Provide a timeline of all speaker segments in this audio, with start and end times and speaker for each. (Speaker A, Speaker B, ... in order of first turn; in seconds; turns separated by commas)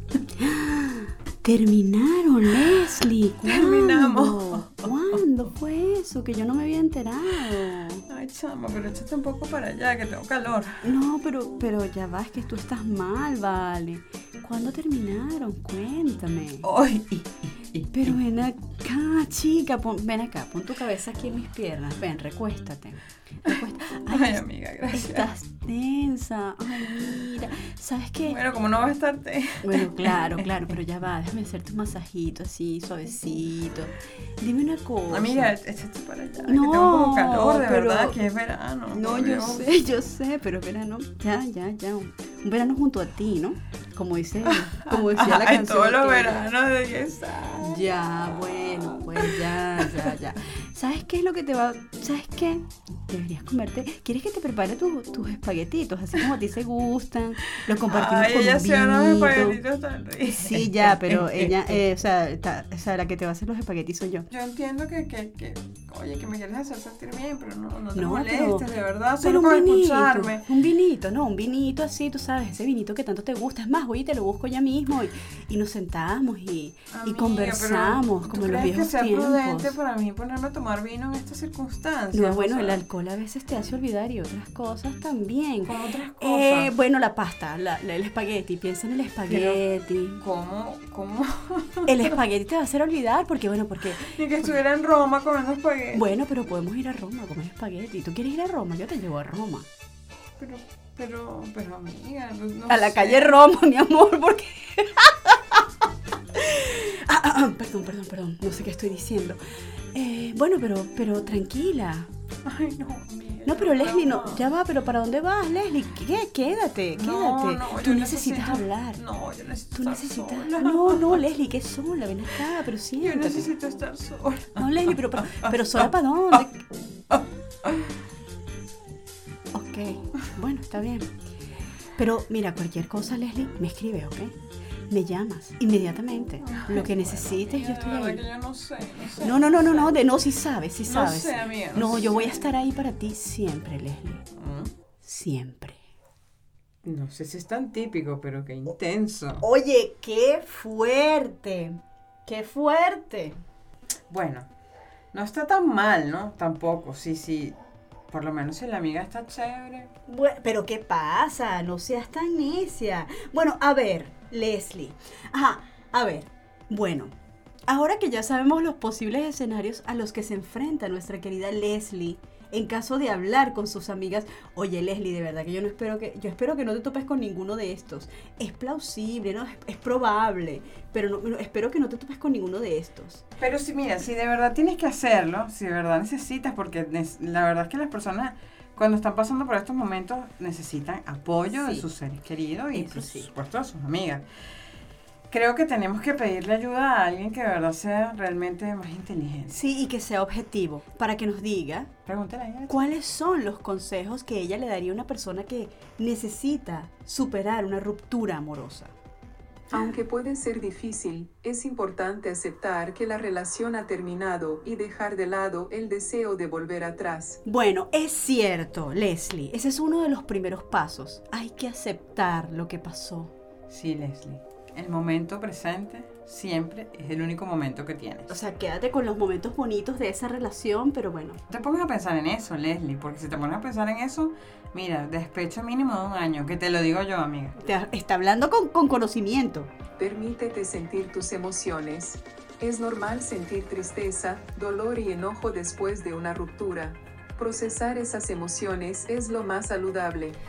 Speaker A: 0.4-8.1, Speaker B: 3.5-5.2, Speaker B: 8.1-10.8, Speaker A: 10.8-16.7, Speaker B: 16.6-18.2, Speaker A: 17.9-28.4, Speaker B: 24.1-25.3, Speaker B: 28.2-30.7, Speaker A: 29.6-35.5, Speaker B: 35.1-39.7, Speaker A: 36.5-38.2, Speaker A: 38.9-46.5, Speaker B: 44.5-47.9, Speaker A: 47.6-59.6, Speaker B: 48.5-50.1, Speaker B: 57.5-61.8, Speaker A: 60.2-64.3, Speaker B: 64.3-70.5, Speaker A: 67.9-68.7, Speaker A: 69.2-79.8, Speaker B: 76.9-82.8, Speaker A: 82.1-90.2, Speaker B: 85.6-86.7, Speaker B: 89.3-89.6, Speaker B: 90.2-92.2, Speaker A: 91.9-94.6, Speaker B: 94.0-96.1, Speaker A: 95.9-99.7, Speaker B: 100.4-103.4, Speaker A: 102.7-109.4, Speaker A: 109.9-112.1, Speaker B: 112.5-114.5, Speaker A: 113.5-119.0, Speaker B: 116.9-121.2, Speaker A: 119.7-123.5, Speaker B: 123.0-125.9, Speaker A: 124.6-126.6, Speaker B: 127.1-127.9, Speaker A: 129.5-131.1, Speaker A: 132.0-134.4, Speaker A: 134.9-138.2, Speaker B: 136.4-140.0, Speaker A: 139.2-144.2, Speaker B: 140.9-142.5, Speaker B: 144.3-144.7, Speaker A: 145.0-145.8, Speaker B: 146.8-149.4, Speaker A: 149.4-153.4, Speaker B: 154.1-154.5, Speaker B: 155.1-157.6, Speaker B: 158.1-159.9, Speaker A: 160.1-167.1, Speaker A: 167.7-183.2, Speaker B: 183.4-194.2, Speaker A: 191.5-191.9, Speaker A: 192.7-193.3, Speaker B: 195.3-199.6, Speaker A: 199.5-201.9, Speaker B: 202.1-202.8, Speaker A: 202.7-208.9, Speaker C: 209.7-217.4, Speaker A: 217.4-223.3, Speaker B: 223.7-228.3, Speaker A: 228.3-231.4, Speaker B: 231.5-237.6, Speaker A: 237.6-239.7, Speaker C: 240.0-250.4